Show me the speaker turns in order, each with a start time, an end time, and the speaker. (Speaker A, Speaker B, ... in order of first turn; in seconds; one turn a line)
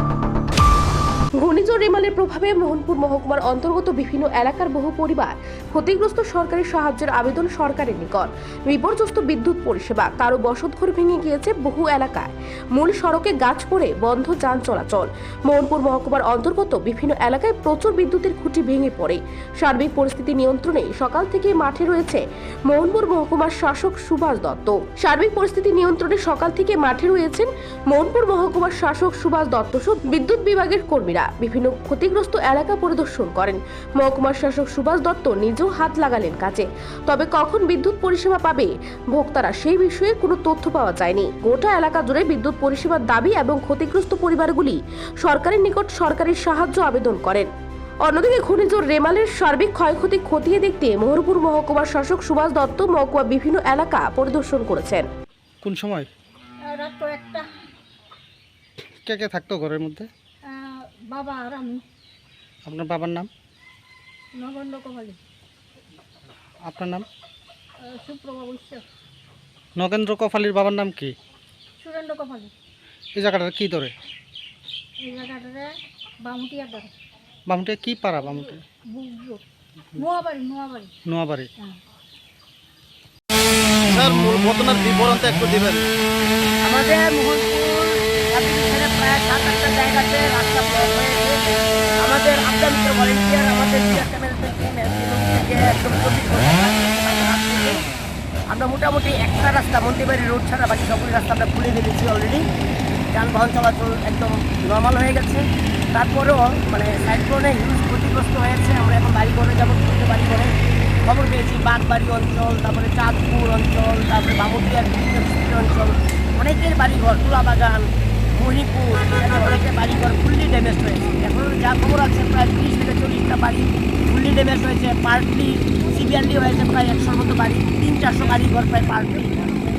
Speaker A: 1.4-47.5
Speaker A: 48.0-55.1
Speaker B: 55.6-56.1
Speaker C: 56.6-57.5
Speaker B: 59.0-60.1
Speaker C: 60.4-61.8
Speaker B: 62.6-63.3
Speaker C: 64.3-65.2
Speaker B: 66.6-67.1
Speaker C: 67.8-68.8
Speaker B: 69.8-71.1
Speaker C: 71.8-72.5
Speaker B: 73.1-73.9
Speaker C: 75.0-76.9
Speaker B: 77.5-78.6
Speaker C: 78.9-79.4
Speaker C: 79.9-80.9
Speaker B: 81.0-81.5
Speaker D: 83.8-85.8
Speaker E: 86.6-91.4
Speaker E: 92.0-97.9
Speaker E: 98.5-102.5
Speaker E: 103.1-129.4